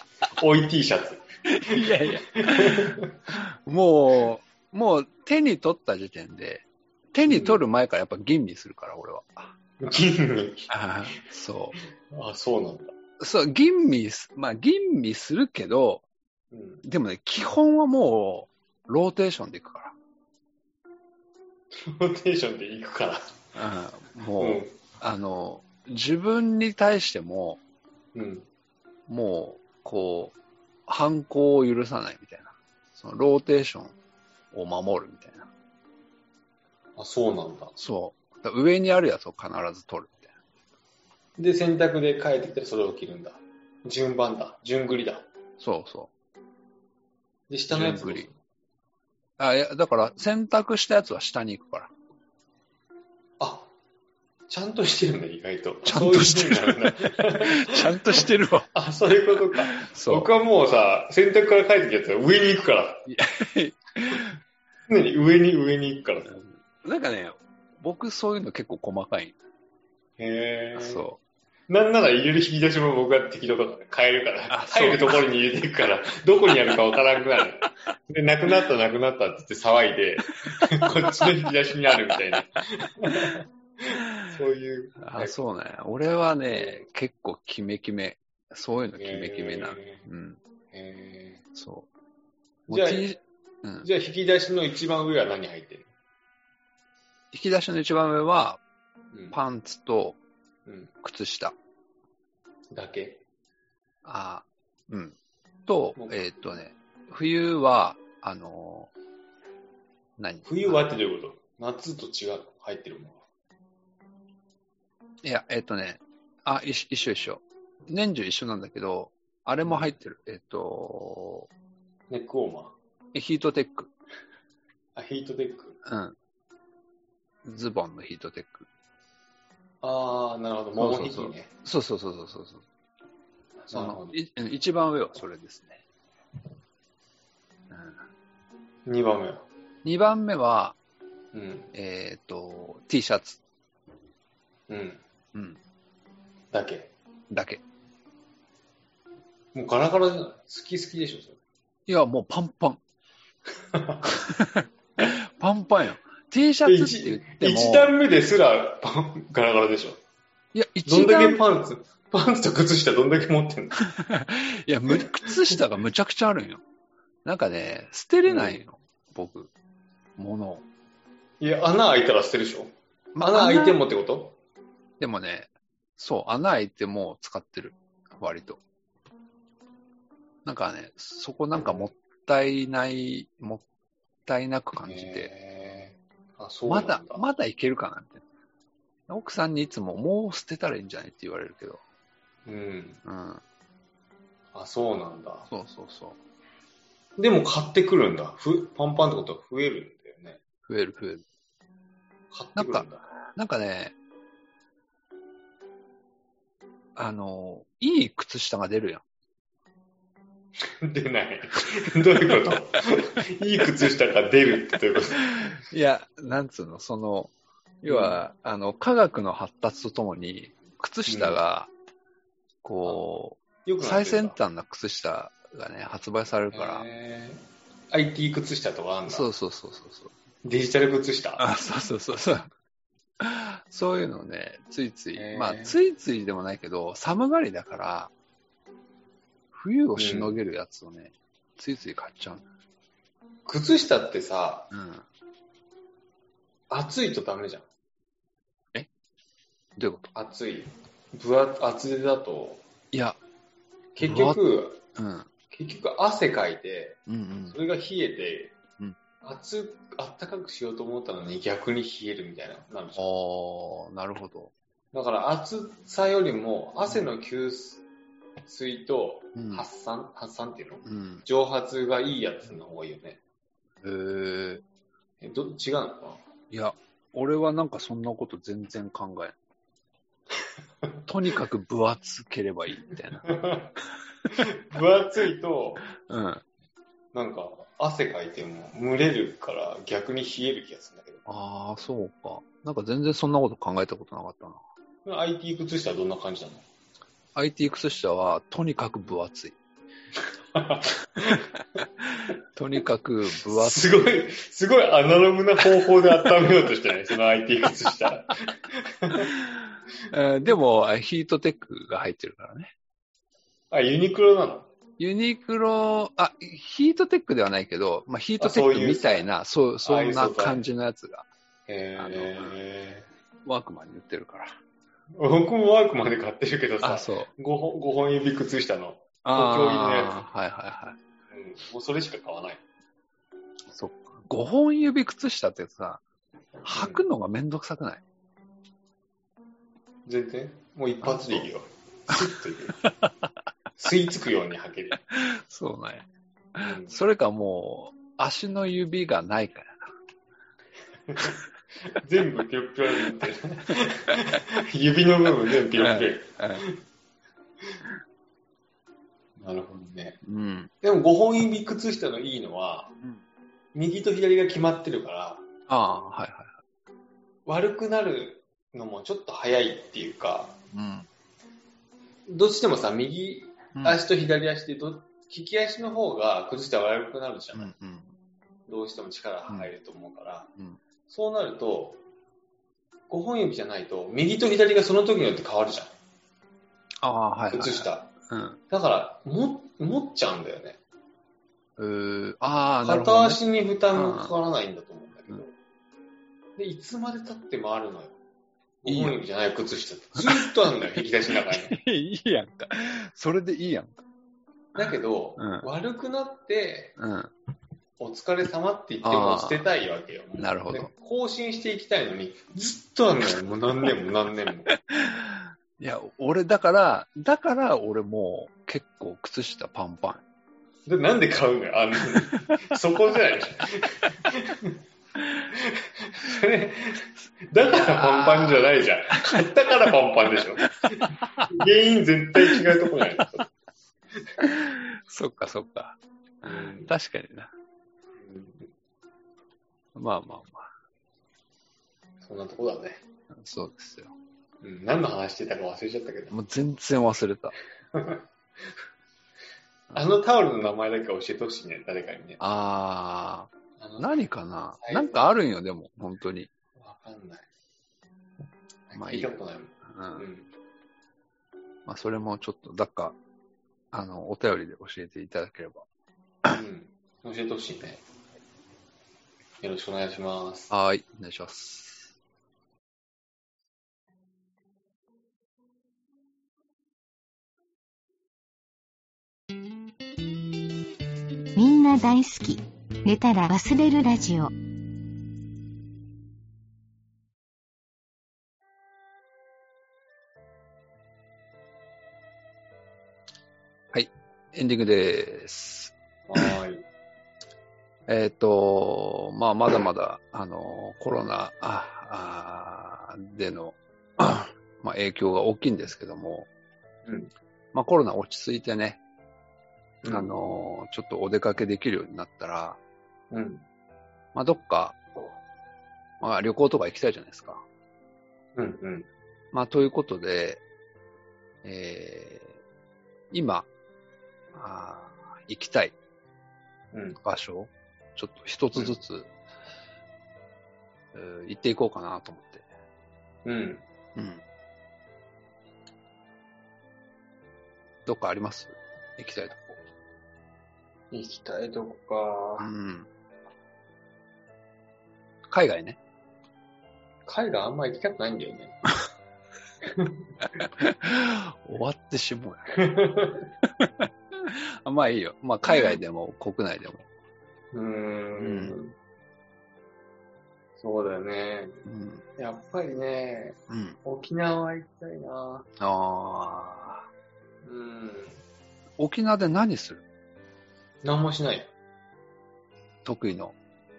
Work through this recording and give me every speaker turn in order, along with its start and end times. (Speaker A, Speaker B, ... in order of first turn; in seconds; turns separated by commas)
Speaker A: 0.4-3.1, Speaker B: 1.5-9.6, Speaker A: 7.3-7.6, Speaker A: 9.8-10.7, Speaker B: 10.7-11.8, Speaker A: 12.1-12.9, Speaker B: 13.2-16.1, Speaker A: 16.5-16.8, Speaker B: 16.8-19.9, Speaker A: 21.8-23.4, Speaker B: 23.6-27.6, Speaker A: 24.4-24.7, Speaker A: 28.1-28.5, Speaker B: 29.1-30.4, Speaker B: 30.9-34.0, Speaker B: 34.5-35.5, Speaker A: 37.0-37.7, Speaker B: 37.8-40.3, Speaker A: 41.4-45.3, Speaker B: 45.6-46.1, Speaker A: 47.5-48.4, Speaker B: 47.7-48.3, Speaker B: 49.4-51.9, Speaker A: 53.4-53.7, Speaker A: 54.5-63.1, Speaker B: 55.9-58.7, Speaker B: 59.6-60.3, Speaker B: 63.1-64.4, Speaker A: 64.9-66.3, Speaker B: 66.3-69.3, Speaker A: 70.2-71.0, Speaker B: 70.8-71.2, Speaker A: 71.7-85.4, Speaker B: 74.5-75.3, Speaker B: 85.0-90.4, Speaker A: 86.5-86.9, Speaker A: 89.0-90.0, Speaker A: 90.7-91.4, Speaker B: 91.5-91.9, Speaker A: 92.7-93.2, Speaker B: 92.7-93.9, Speaker A: 93.8-95.9, Speaker B: 97.3-98.6, Speaker B: 99.3-100.2, Speaker A: 100.7-100.9, Speaker B: 101.0-101.6, Speaker A: 102.7-103.2, Speaker B: 104.0-108.9, Speaker A: 106.0-106.4, Speaker B: 110.2-110.9, Speaker A: 110.5-113.2, Speaker B: 115.2-121.5, Speaker A: 119.6-119.9, Speaker A: 122.1-122.8, Speaker B: 123.1-123.9, Speaker A: 125.0-125.8, Speaker B: 125.8-126.2, Speaker B: 127.4-128.7, Speaker A: 129.8-131.5, Speaker B: 130.8-132.6, Speaker A: 133.6-134.2, Speaker B: 133.7-135.8, Speaker B: 137.7-138.0, Speaker A: 138.9-139.5, Speaker B: 139.8-140.8, Speaker A: 141.3-141.7, Speaker B: 141.7-143.4, Speaker A: 144.7-145.0, Speaker B: 145.3-145.6, Speaker A: 146.5-146.9, Speaker B: 147.3-147.6, Speaker A: 149.5-151.4, Speaker B: 151.9-152.8, Speaker A: 153.7-154.1, Speaker B: 154.1-157.9, Speaker A: 156.7-160.0, Speaker B: 160.5-161.4, Speaker A: 160.9-163.8, Speaker B: 163.9-166.6, Speaker B: 167.2-169.5, Speaker A: 168.3-168.6, Speaker B: 170.2-170.6, Speaker A: 171.4-174.4, Speaker B: 173.2-173.8, Speaker B: 175.0-178.6, Speaker B: 180.4-183.6, Speaker A: 181.6-181.9, Speaker B: 184.3-185.3, Speaker A: 184.8-187.2, Speaker B: 186.7-188.2, Speaker B: 189.1-191.8, Speaker A: 192.5-193.0, Speaker B: 193.1-193.4, Speaker A: 194.5-195.5, Speaker B: 195.5-196.2, Speaker A: 197.2-200.4, Speaker B: 200.7-201.2, Speaker A: 202.3-203.1, Speaker B: 202.6-203.9, Speaker B: 207.0-209.0, Speaker A: 210.8-215.3, Speaker B: 215.4-221.7, Speaker A: 217.9-218.2, Speaker A: 221.1-221.4, Speaker B: 222.6-226.8, Speaker A: 223.7-224.4, Speaker A: 226.5-229.3, Speaker B: 229.1-230.1, Speaker A: 230.4-231.4, Speaker B: 231.4-232.5, Speaker B: 233.2-238.1, Speaker A: 235.2-235.8, Speaker B: 239.5-242.5, Speaker A: 240.0-240.4, Speaker A: 243.5-244.7, Speaker B: 244.7-245.1, Speaker A: 246.7-247.7, Speaker B: 249.8-250.1, Speaker A: 250.2-252.6, Speaker B: 252.9-253.2, Speaker A: 254.0-254.8, Speaker B: 254.0-254.4, Speaker B: 254.9-255.3, Speaker A: 255.5-258.6, Speaker B: 257.1-257.6, Speaker A: 259.2-263.1, Speaker B: 263.0-264.5, Speaker A: 264.9-267.8, Speaker A: 268.5-273.2, Speaker B: 269.4-269.7, Speaker B: 270.9-271.2, Speaker B: 273.8-274.6, Speaker A: 275.2-276.2, Speaker B: 276.5-279.4, Speaker B: 281.1-283.3, Speaker A: 283.3-283.7, Speaker A: 284.3-285.9, Speaker B: 286.0-286.4, Speaker A: 287.1-291.2, Speaker B: 291.3-294.6, Speaker A: 295.1-296.6, Speaker B: 297.4-299.6, Speaker A: 300.5-301.5, Speaker B: 302.1-304.0, Speaker A: 303.4-309.3, Speaker B: 309.4-312.7, Speaker A: 313.7-314.7, Speaker B: 315.0-321.3, Speaker A: 318.4-319.3, Speaker A: 319.8-320.6, Speaker A: 321.7-323.1, Speaker B: 322.0-322.6, Speaker B: 323.4-324.6, Speaker A: 325.2-330.2, Speaker B: 326.8-327.3, Speaker B: 329.2-331.0, Speaker A: 331.3-332.6, Speaker B: 333.7-336.0, Speaker A: 336.6-337.0, Speaker B: 336.6-338.0, Speaker A: 340.1-342.8, Speaker B: 341.0-341.5, Speaker B: 342.8-343.3, Speaker A: 343.8-345.0, Speaker B: 345.1-349.9, Speaker A: 346.6-346.9, Speaker A: 351.1-356.8, Speaker B: 355.8-356.6, Speaker A: 359.4-360.2, Speaker B: 360.2-360.7, Speaker A: 360.8-363.0, Speaker A: 363.7-365.4, Speaker B: 365.7-366.6, Speaker A: 367.5-370.6, Speaker B: 370.7-371.1, Speaker A: 372.3-377.7, Speaker B: 377.5-378.1, Speaker A: 378.7-380.5, Speaker A: 381.1-382.0, Speaker A: 383.1-385.9, Speaker B: 387.0-388.6, Speaker A: 387.5-388.1, Speaker A: 388.7-390.8, Speaker B: 391.8-394.4, Speaker A: 392.8-395.5, Speaker A: 396.6-398.2, Speaker A: 398.8-401.8, Speaker B: 398.9-399.2, Speaker B: 400.2-400.5, Speaker B: 401.5-404.0, Speaker A: 404.8-407.0, Speaker B: 404.8-405.7, Speaker B: 407.0-407.3, Speaker A: 408.0-414.7, Speaker B: 409.0-409.6, Speaker B: 410.4-410.9, Speaker B: 414.9-420.2, Speaker A: 420.9-424.8, Speaker A: 425.5-433.5, Speaker B: 427.7-429.4, Speaker B: 430.8-431.5, Speaker B: 432.4-432.6, Speaker B: 434.4-437.5, Speaker A: 436.4-436.9, Speaker A: 438.2-438.7, Speaker B: 439.9-440.7, Speaker A: 442.2-443.0, Speaker B: 443.3-444.1, Speaker A: 444.6-446.4, Speaker B: 446.3-447.6, Speaker A: 447.9-448.2, Speaker A: 449.9-452.4, Speaker B: 452.4-456.5, Speaker A: 453.8-454.2, Speaker A: 454.8-455.2, Speaker A: 456.8-457.5, Speaker A: 458.9-460.5, Speaker B: 458.9-459.3, Speaker B: 459.8-460.3, Speaker B: 461.9-463.2, Speaker B: 463.9-465.9, Speaker A: 466.5-468.0, Speaker A: 469.6-470.7, Speaker B: 470.7-472.1, Speaker C: 481.6-484.5, Speaker B: 493.9-495.9, Speaker A: 496.3-496.9, Speaker B: 498.1-506.5, Speaker A: 507.1-507.3, Speaker B: 507.7-509.0, Speaker A: 510.0-510.3, Speaker B: 510.0-512.8, Speaker A: 513.3-513.6, Speaker B: 514.4-515.0, Speaker B: 516.2-517.6, Speaker A: 518.6-519.1, Speaker B: 519.5-520.6, Speaker B: 521.6-522.6, Speaker B: 523.3-523.7, Speaker B: 524.5-526.0, Speaker A: 526.9-527.2, Speaker B: 527.2-529.3, Speaker B: 531.1-532.7, Speaker A: 533.5-533.9, Speaker B: 534.1-534.4, Speaker B: 538.1-539.8, Speaker A: 541.1-542.7, Speaker B: 542.6-543.1, Speaker B: 545.5-546.0, Speaker A: 547.3-548.8, Speaker A: 549.8-550.3, Speaker B: 550.7-552.8, Speaker A: 552.8-553.5, Speaker B: 553.6-557.1, Speaker A: 557.7-559.0, Speaker B: 558.4-558.8, Speaker A: 560.8-561.8, Speaker B: 561.9-562.2, Speaker A: 562.4-565.7, Speaker B: 563.7-564.0, Speaker B: 565.8-567.1, Speaker A: 567.6-568.4, Speaker B: 569.0-570.0, Speaker A: 571.0-571.7, Speaker B: 573.0-573.5